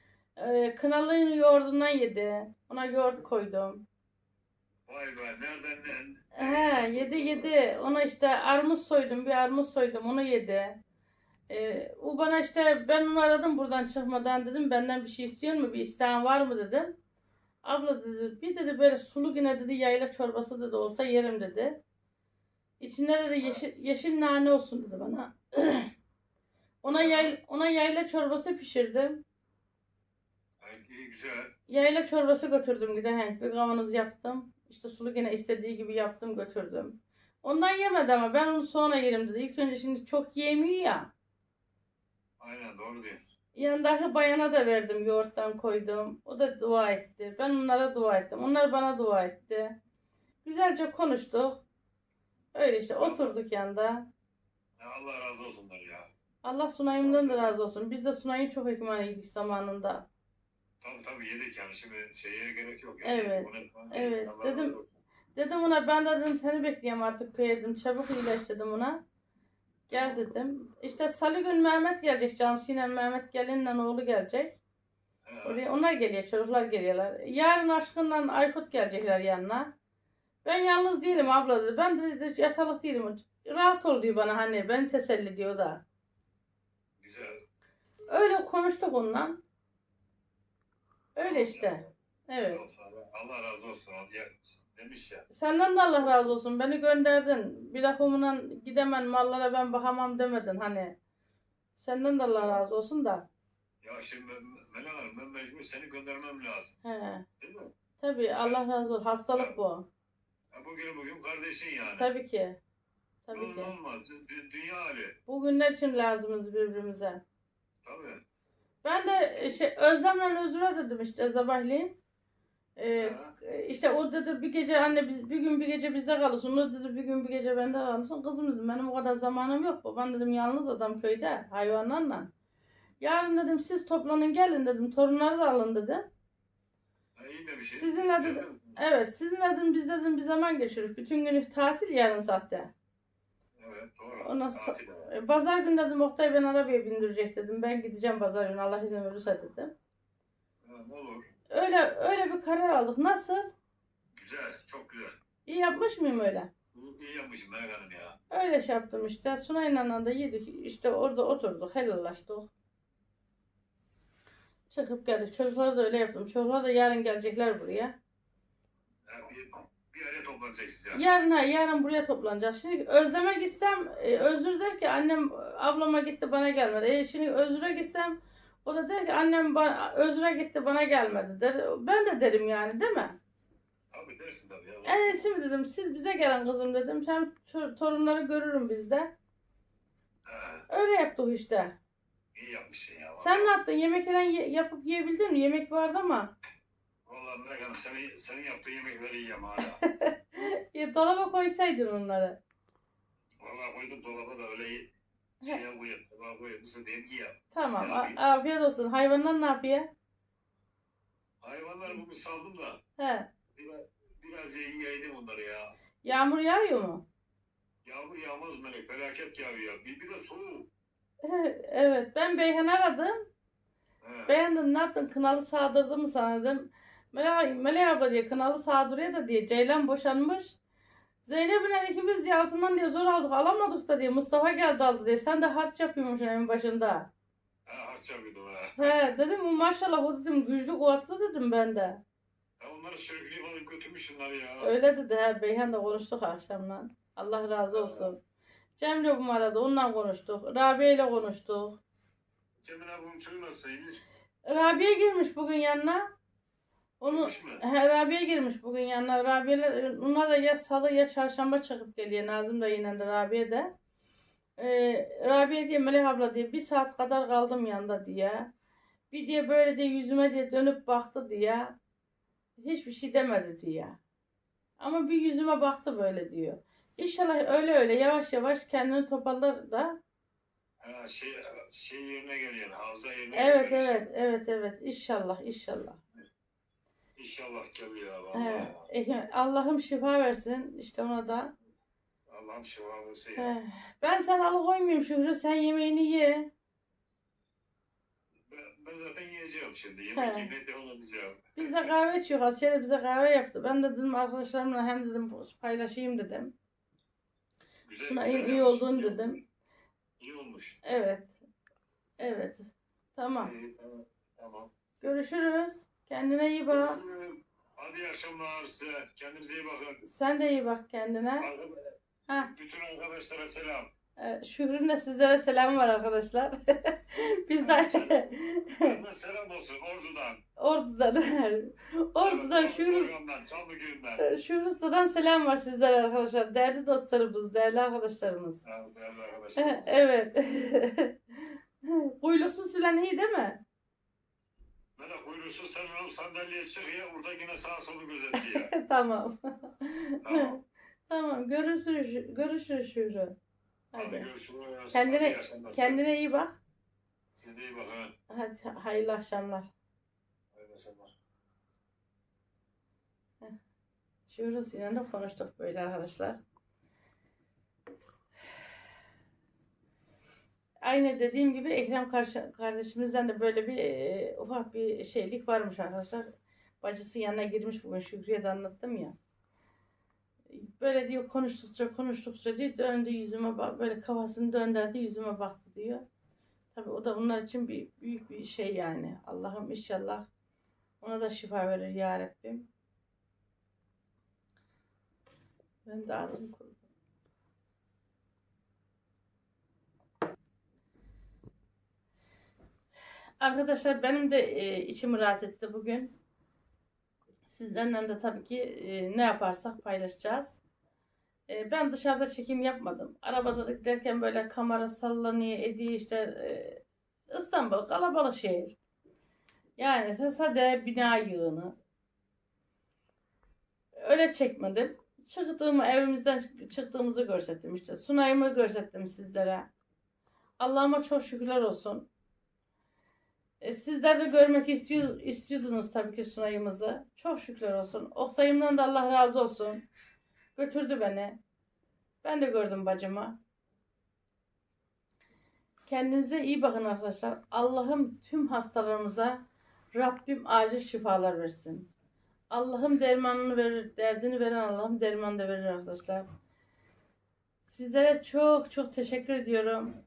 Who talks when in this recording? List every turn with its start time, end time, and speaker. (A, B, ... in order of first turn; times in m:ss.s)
0:00.4-0:03.8 A
0:04.9-0:07.5 B
0:06.4-0:10.8 A
0:11.5-0:17.0 A
0:17.6-0:21.8 A
0:22.8-0:25.9 A
0:26.8-0:29.2 A
0:26.9-0:27.4 B
0:30.6-0:31.5 B
0:31.7-0:41.1 A
0:42.4-0:43.2 B
0:43.6-0:49.8 A
0:50.4-0:51.6 A
0:52.5-0:54.1 A
0:53.0-0:53.4 B
0:54.8-0:56.1 B
0:56.4-1:00.1 A
0:57.0-0:57.5 B
1:00.8-1:04.8 B
1:03.0-1:04.7 A
1:05.4-1:09.0 A
1:09.9-1:14.6 A
1:09.9-1:10.2 B
1:15.3-1:15.6 B
1:15.4-1:19.7 A
1:20.4-1:25.8 A
1:27.0-1:27.4 B
1:28.1-1:29.4 A
1:31.2-1:32.6 A
1:31.2-1:31.9 B
1:32.5-1:35.2 B
1:35.3-1:41.0 A
1:41.8-1:43.3 A
1:42.4-1:42.6 B
1:43.8-1:46.8 B
1:46.8-1:47.2 A
1:47.4-1:47.7 B
1:48.0-1:49.9 A
1:50.5-1:52.1 B
1:52.0-1:52.6 A
1:53.3-1:53.7 A
1:53.3-1:55.2 B
1:55.3-1:57.2 A
1:57.8-1:58.2 B
1:58.8-2:02.0 A
2:02.8-2:12.3 A
2:03.0-2:03.3 B
2:13.0-2:16.1 A
2:17.2-2:18.8 B
2:17.6-2:22.7 A
2:23.6-2:25.1 B
2:24.1-2:29.7 A
2:30.6-2:31.3 B
2:31.5-2:33.5 A
2:34.2-2:35.2 B
2:35.5-2:36.5 A
2:36.7-2:38.2 B
2:38.3-2:42.5 A
2:44.7-2:48.0 A
2:49.1-2:51.0 B
2:51.0-3:03.2 A
3:03.9-3:05.2 B
3:04.8-3:09.1 A
3:10.3-3:10.6 B
3:10.7-3:11.8 A
3:12.3-3:13.5 B
3:13.2-3:16.3 A
3:17.1-3:19.8 B
3:19.8-3:22.4 A
3:23.4-3:24.8 B
3:25.4-3:28.2 B
3:27.5-3:29.9 A
3:31.4-3:32.8 B
3:33.0-3:33.3 A
3:33.6-3:35.7 B
3:36.0-3:37.0 A
3:37.8-3:40.7 B
3:41.2-3:43.2 A
3:44.0-3:44.4 B
3:44.3-3:50.6 A
3:51.2-3:57.1 A
3:57.7-3:58.9 B
3:58.8-4:02.0 A
4:02.6-4:04.7 B
4:04.6-4:08.2 A
4:07.7-4:08.1 B
4:08.8-4:11.8 A
4:12.6-4:14.0 B
4:14.5-4:16.1 A
4:17.0-4:23.7 A
4:17.1-4:17.6 B
4:24.6-4:28.5 A
4:29.1-4:31.8 A
4:32.6-4:34.0 A
4:34.8-4:40.0 A
4:40.8-4:44.1 B
4:43.3-4:46.0 A
4:47.2-4:48.8 B
4:48.3-4:51.5 A
4:52.3-4:53.5 B
4:53.4-4:56.5 A
4:58.5-5:01.9 B
5:00.2-5:00.5 A
5:01.6-5:06.5 A
5:07.9-5:09.3 B
5:08.0-5:09.4 A
5:10.2-5:10.8 B
5:10.8-5:11.4 A
5:12.2-5:13.5 A
5:13.4-5:14.7 B
5:15.0-5:17.0 A
5:16.7-5:20.0 B
5:20.0-5:21.5 A
5:21.4-5:23.9 B
5:24.2-5:29.0 A
5:27.6-5:28.3 B
5:28.8-5:30.4 B
5:30.6-5:33.1 A
5:32.2-5:34.2 B
5:34.2-5:38.6 A
5:38.6-5:40.0 B
5:39.6-5:43.6 A
5:45.0-5:48.7 B
5:48.3-5:50.6 A
5:50.2-5:50.6 B
5:51.1-5:53.4 A
5:53.9-5:54.3 A
5:53.9-5:56.0 B
5:54.9-5:56.6 A
5:57.4-5:58.1 B
5:58.3-5:59.7 A
6:00.5-6:01.1 B
6:04.3-6:06.4 A
6:10.8-6:16.3 A
6:16.8-6:19.2 A
6:20.5-6:26.0 A
6:26.7-6:30.3 A
6:31.0-6:32.7 A
6:35.9-6:36.8 A
6:43.4-6:46.2 A
6:47.5-6:50.6 A
6:51.5-6:58.8 A
6:59.8-7:01.8 A
7:04.0-7:09.7 A
7:10.6-7:12.1 A
7:13.6-7:19.8 A
7:20.6-7:21.4 A
7:22.2-7:23.4 A
7:25.9-7:29.4 A
7:29.9-7:31.9 A
7:32.5-7:36.2 A
7:37.6-7:39.9 A